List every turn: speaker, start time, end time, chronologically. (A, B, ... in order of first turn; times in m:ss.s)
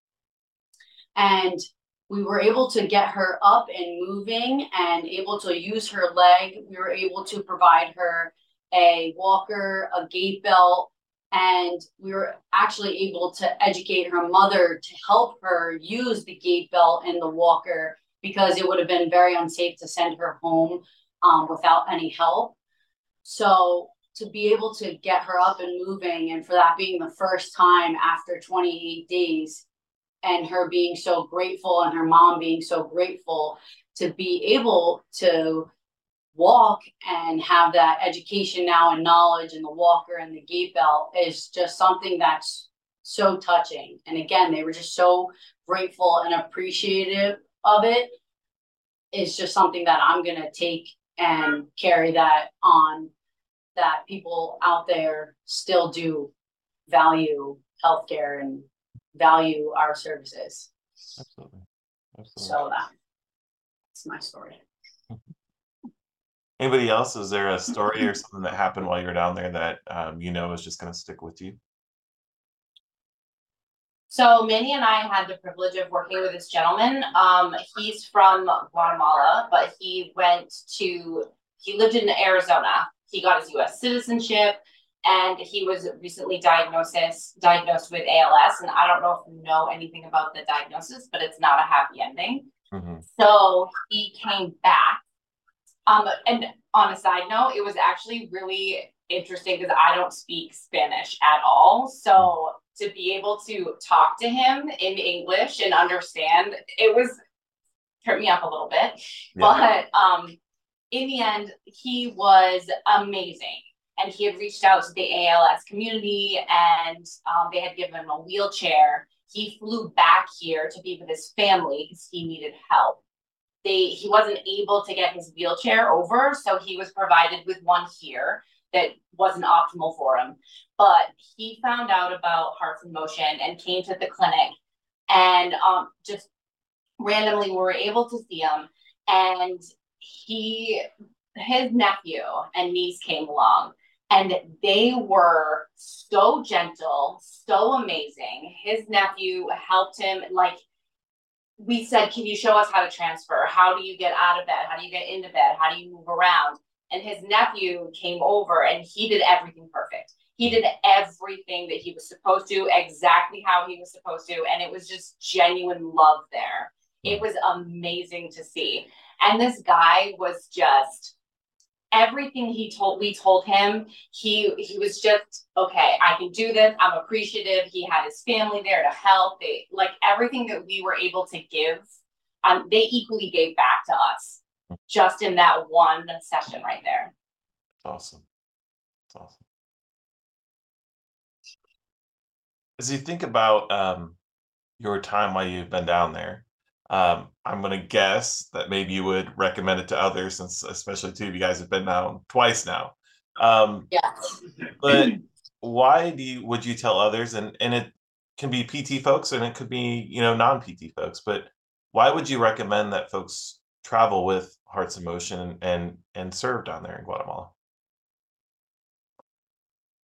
0:01.2-0:22.5 A
0:23.2-0:29.6 A
0:30.2-0:35.7 A
0:36.3-0:48.1 A
0:49.1-0:53.1 A
0:53.8-0:56.3 A
0:56.9-1:00.7 A
1:01.2-1:02.6 B
1:02.4-1:02.9 A
1:03.9-1:04.6 A
1:06.6-1:11.6 B
1:14.1-1:32.5 C
1:32.7-1:33.0 B
1:33.1-1:35.0 C
1:35.8-1:47.2 C
1:48.0-1:50.4 C
1:50.9-2:03.0 C
2:03.6-2:14.5 C
2:15.1-2:16.3 C
2:17.0-2:30.6 C
2:31.6-2:51.1 C
2:51.9-3:07.1 C
3:07.8-3:08.2 B
3:09.1-3:09.4 B
3:12.8-3:14.2 B
3:14.8-3:23.9 B
3:23.9-3:24.4 A
3:24.8-3:37.5 B